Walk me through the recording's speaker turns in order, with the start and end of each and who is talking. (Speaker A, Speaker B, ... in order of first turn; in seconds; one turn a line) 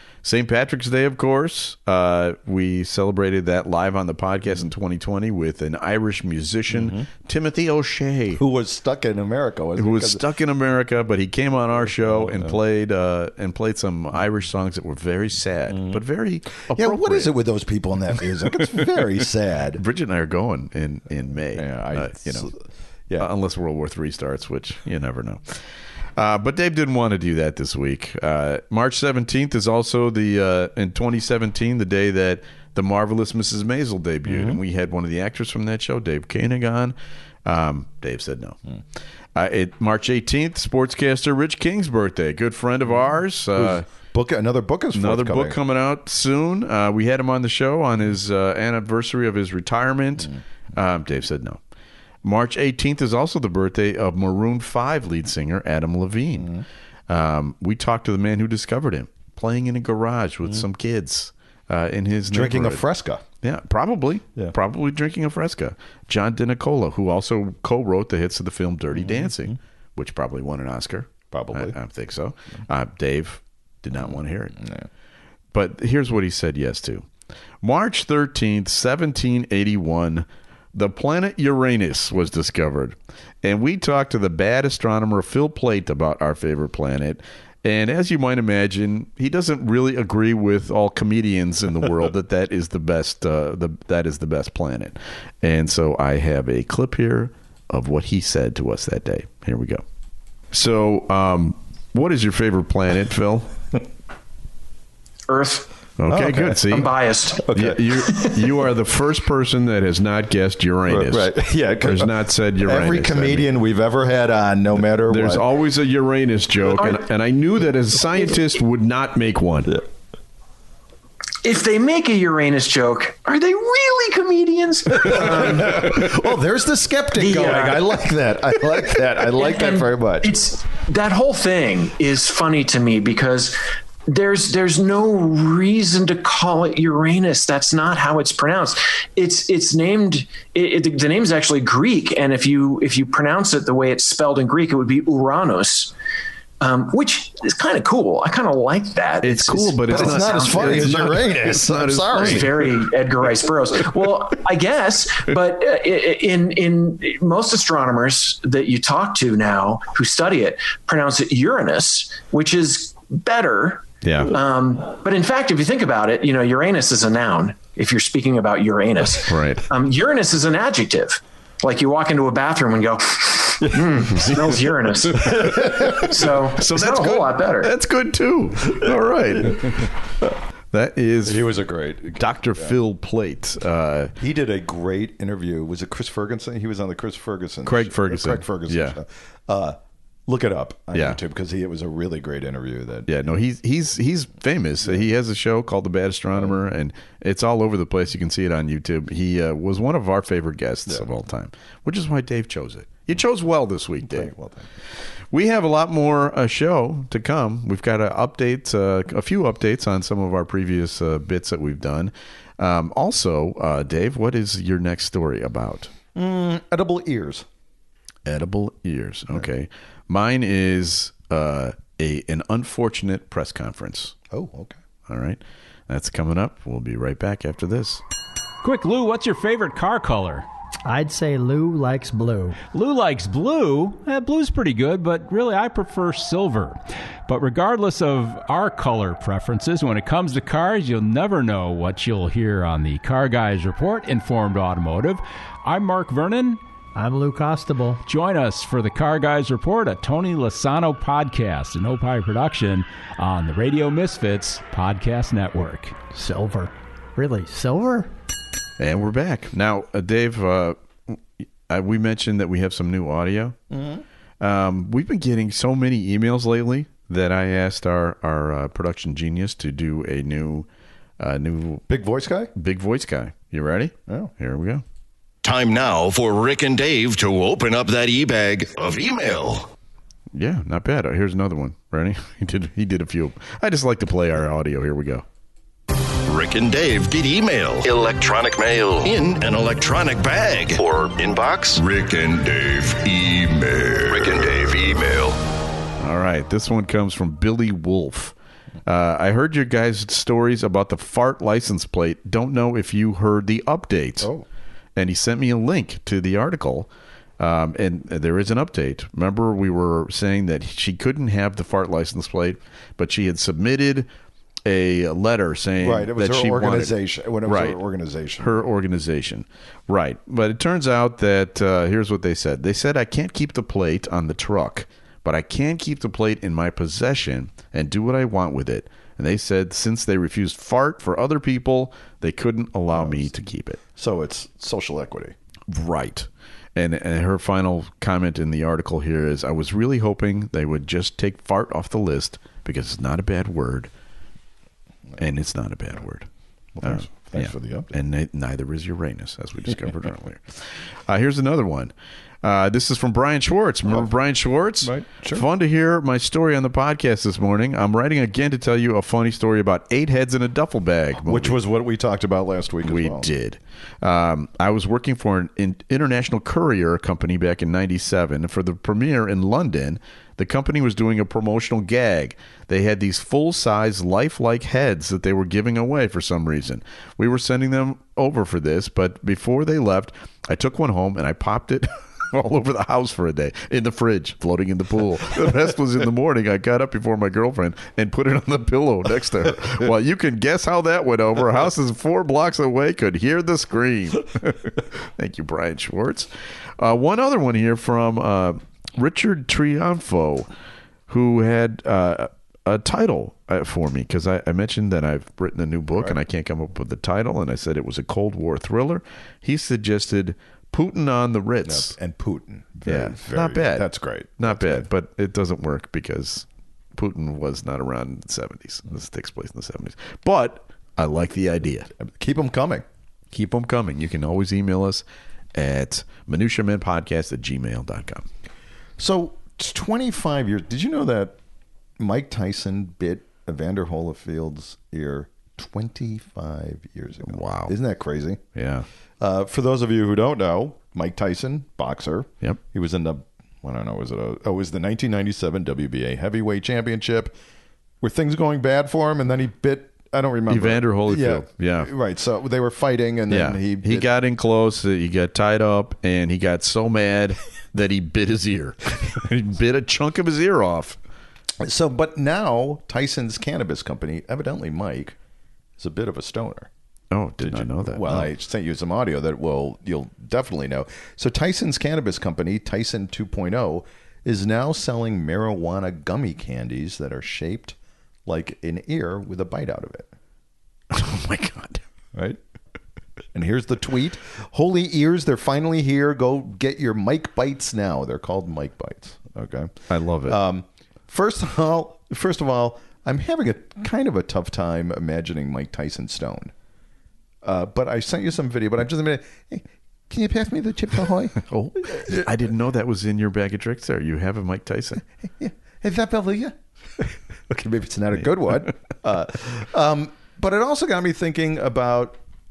Speaker A: 0.2-8.4
Speaker B: 6.7-7.1
Speaker B: 8.4-10.2
Speaker A: 9.8-17.3
Speaker B: 12.0-12.6
Speaker B: 15.7-16.0
Speaker B: 16.6-19.8
Speaker A: 18.3-19.0
Speaker A: 19.8-22.5
Speaker B: 21.5-23.3
Speaker A: 23.2-25.6
Speaker A: 26.2-38.6
Speaker B: 34.3-34.6
Speaker A: 39.4-43.9
Speaker B: 43.6-45.6
Speaker A: 44.9-51.6
Speaker A: 52.2-56.5
Speaker B: 56.4-56.6
Speaker A: 57.1-62.8
Speaker B: 62.3-63.2
Speaker A: 63.4-74.6
Speaker B: 69.0-69.5
Speaker B: 71.3-71.8
Speaker B: 74.0-74.9
Speaker A: 75.5-77.1
Speaker A: 77.6-99.8
Speaker A: 100.5-103.5
Speaker C: 105.3-105.7
Speaker A: 106.0-106.9
Speaker B: 106.1-106.8
Speaker C: 106.7-107.4
Speaker B: 107.4-107.9
Speaker A: 107.5-113.5
Speaker B: 110.9-115.5
Speaker A: 115.1-119.8
Speaker C: 116.7-117.1
Speaker C: 121.4-126.1
Speaker B: 125.1-130.3
Speaker C: 127.2-128.1
Speaker C: 129.3-145.9
Speaker C: 146.6-151.3
Speaker A: 149.2-152.5
Speaker B: 149.9-152.5
Speaker C: 152.1-177.7
Speaker A: 164.0-164.3
Speaker A: 169.3-169.7
Speaker B: 175.5-176.0
Speaker A: 175.7-179.9
Speaker A: 180.7-181.5
Speaker B: 181.2-182.8
Speaker A: 182.1-184.1
Speaker B: 184.2-193.1
Speaker A: 187.7-189.0
Speaker A: 190.9-191.2
Speaker A: 193.1-204.3
Speaker B: 204.0-204.7
Speaker A: 205.3-215.9
Speaker B: 216.2-217.5
Speaker A: 218.3-224.2
Speaker B: 224.3-224.8
Speaker A: 225.1-228.0
Speaker D: 228.6-230.5
Speaker E: 230.9-232.6
Speaker D: 232.6-246.6
Speaker E: 246.9-248.0
Speaker D: 248.0-256.0
Speaker E: 256.1-258.1
Speaker A: 258.8-263.6
Speaker B: 263.7-264.0
Speaker A: 264.4-270.7
Speaker A: 271.2-271.9
Speaker B: 271.9-272.5
Speaker A: 272.6-274.8
Speaker F: 275.4-279.7
Speaker A: 280.3-285.2
Speaker F: 286.2-295.4
Speaker A: 296.0-304.3
Speaker A: 305.0-314.1
Speaker A: 314.6-317.8
Speaker B: 315.8-318.6
Speaker A: 318.4-333.8
Speaker B: 332.9-333.3
Speaker B: 333.9-335.3
Speaker A: 335.7-343.9
Speaker A: 345.2-346.3
Speaker B: 346.8-347.9
Speaker A: 346.8-361.6
Speaker B: 354.8-355.5
Speaker B: 361.3-363.3
Speaker A: 362.8-400.5
Speaker A: 401.1-411.9
Speaker B: 411.6-414.9
Speaker A: 412.9-421.9
Speaker B: 422.0-422.8
Speaker A: 423.3-428.3
Speaker B: 429.0-431.4
Speaker B: 432.0-438.4
Speaker A: 437.2-437.7
Speaker A: 438.6-438.9
Speaker B: 439.2-447.3
Speaker B: 448.0-454.1
Speaker A: 450.5-451.9
Speaker A: 453.3-461.0
Speaker B: 461.6-465.2
Speaker B: 465.8-466.7
Speaker A: 467.1-468.3
Speaker B: 467.4-480.1
Speaker A: 480.9-481.8
Speaker B: 483.4-489.7
Speaker A: 489.9-490.4
Speaker B: 490.3-496.5
Speaker B: 497.4-502.3
Speaker A: 501.4-505.0
Speaker B: 505.2-512.2